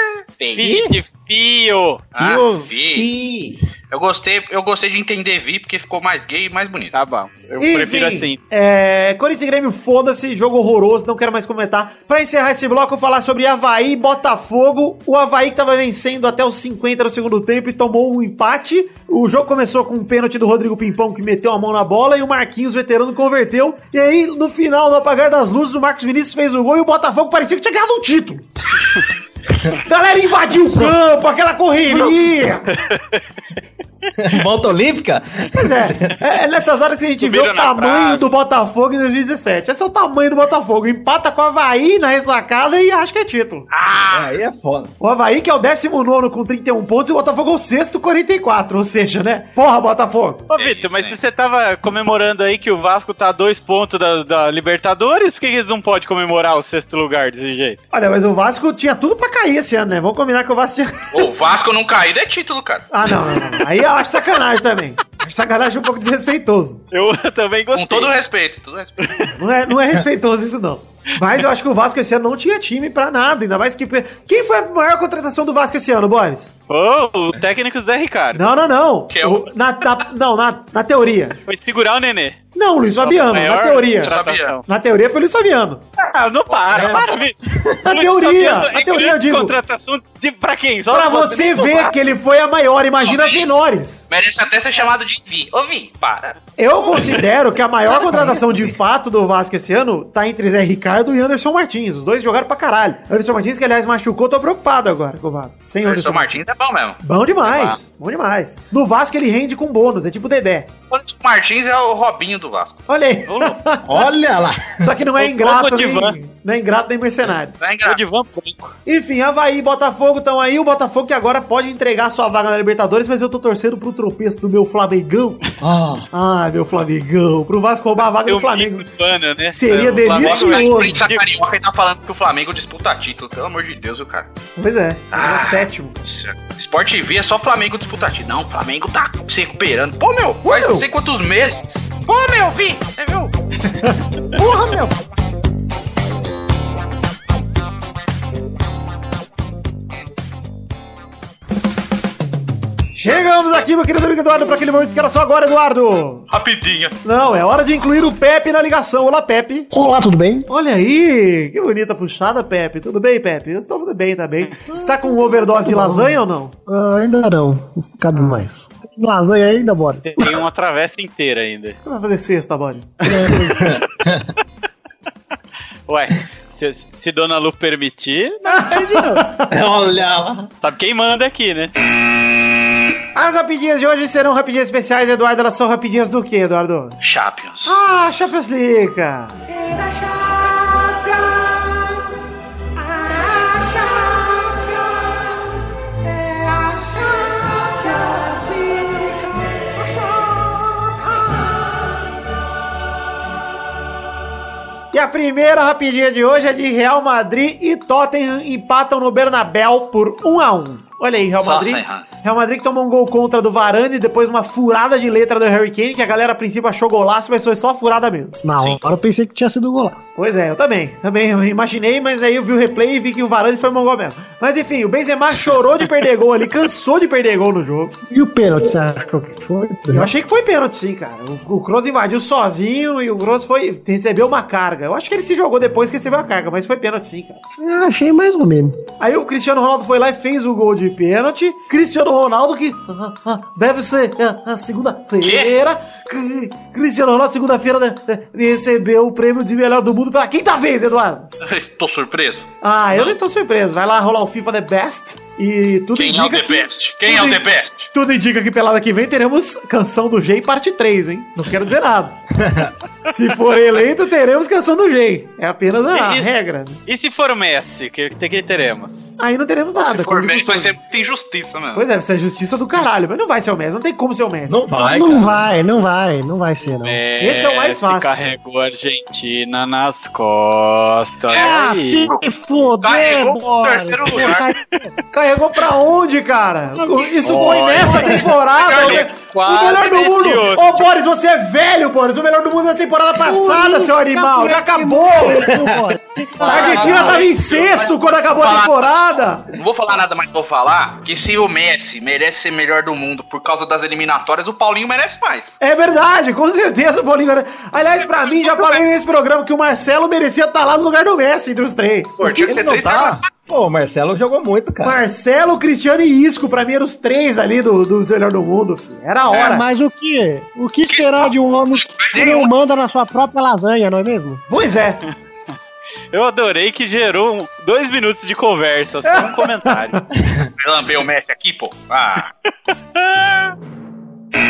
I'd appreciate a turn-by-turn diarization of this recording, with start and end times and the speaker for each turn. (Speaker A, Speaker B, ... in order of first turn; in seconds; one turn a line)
Speaker A: 0.4-0.8
Speaker B: 0.6-2.1
Speaker C: 0.6-0.9
Speaker A: 2.1-3.1
Speaker C: 2.2-3.6
Speaker A: 3.9-6.9
Speaker B: 6.9-8.4
Speaker D: 7.6-28.4
Speaker D: 29.7-32.8
Speaker B: 32.7-33.2
Speaker C: 34.2-36.1
Speaker D: 35.5-43.6
Speaker A: 37.2-38.2
Speaker A: 43.7-44.3
Speaker C: 44.1-44.9
Speaker D: 45.0-50.5
Speaker B: 50.5-57.8
Speaker A: 50.5-51.2
Speaker D: 57.9-61.3
Speaker A: 61.1-62.9
Speaker D: 62.9-66.8
Speaker B: 66.9-68.1
Speaker A: 67.7-69.3
Speaker D: 69.3-76.5
Speaker B: 76.7-78.5
Speaker D: 78.3-81.4
Speaker A: 79.1-79.5
Speaker B: 81.4-82.4
Speaker D: 82.5-85.8
Speaker B: 83.0-84.6
Speaker A: 84.0-84.5
Speaker B: 86.0-87.3
Speaker C: 86.7-87.8
Speaker D: 87.8-89.5
Speaker B: 87.9-91.9
Speaker D: 90.9-94.1
Speaker A: 93.0-96.3
Speaker D: 96.6-106.3
Speaker C: 97.9-98.7
Speaker A: 105.8-107.0
Speaker D: 107.0-110.7
Speaker B: 107.4-107.8
Speaker A: 110.9-112.8
Speaker D: 112.9-114.1
Speaker B: 113.3-113.6
Speaker C: 113.8-114.9
Speaker D: 114.8-117.5
Speaker B: 115.2-116.2
Speaker A: 117.6-118.0
Speaker B: 117.8-118.8
Speaker D: 118.8-125.4
Speaker C: 125.6-126.0
Speaker D: 126.1-128.9
Speaker B: 128.2-131.2
Speaker D: 129.5-131.1
Speaker A: 130.2-134.3
Speaker D: 134.6-136.0
Speaker A: 135.1-143.3
Speaker D: 140.4-140.9
Speaker D: 143.7-144.9
Speaker D: 152.9-156.2
Speaker A: 156.3-156.9
Speaker D: 157.0-159.7
Speaker E: 159.7-160.4
Speaker D: 160.5-166.5
Speaker E: 164.7-170.4
Speaker D: 168.1-168.4
Speaker B: 170.0-171.8
Speaker D: 171.8-173.0
Speaker B: 173.0-173.7
Speaker E: 173.1-173.6
Speaker C: 173.5-174.2
Speaker B: 175.9-178.7
Speaker D: 178.5-179.5
Speaker E: 178.6-179.2
Speaker C: 179.5-180.5
Speaker B: 180.6-181.7
Speaker D: 183.1-187.0
Speaker A: 187.0-187.8
Speaker D: 187.6-189.4
Speaker F: 189.5-192.1
Speaker F: 192.8-195.4
Speaker F: 196.0-202.0
Speaker D: 204.9-218.4
Speaker A: 211.4-212.0
Speaker E: 218.4-220.1
Speaker D: 220.2-227.9
Speaker E: 228.1-230.1
Speaker D: 229.9-237.4
Speaker E: 237.6-238.8
Speaker D: 239.0-251.3
Speaker A: 245.2-245.5
Speaker A: 251.4-253.2
Speaker D: 252.6-262.2
Speaker A: 255.9-257.9
Speaker C: 262.4-262.7
Speaker D: 263.1-266.8
Speaker B: 265.9-266.3
Speaker B: 266.9-269.1
Speaker D: 269.2-270.8
Speaker A: 269.7-271.8
Speaker D: 271.7-274.6
Speaker C: 274.5-275.5
Speaker E: 274.8-277.0
Speaker B: 276.6-282.1
Speaker D: 277.2-278.2
Speaker E: 281.3-284.9
Speaker A: 281.3-282.2
Speaker A: 282.8-284.5
Speaker D: 285.1-295.5
Speaker E: 286.7-288.1
Speaker B: 287.2-290.9
Speaker A: 288.5-289.1
Speaker E: 293.1-297.2
Speaker C: 295.5-295.8
Speaker A: 296.4-298.9
Speaker D: 296.4-299.4
Speaker A: 299.5-305.6
Speaker D: 305.6-312.6
Speaker A: 308.4-308.7
Speaker A: 312.2-313.3
Speaker C: 312.2-315.0
Speaker D: 314.8-319.6
Speaker E: 319.3-324.4
Speaker A: 320.9-322.5
Speaker D: 324.5-325.0
Speaker B: 326.1-330.0
Speaker D: 329.1-330.0
Speaker A: 330.6-332.3
Speaker B: 333.1-333.4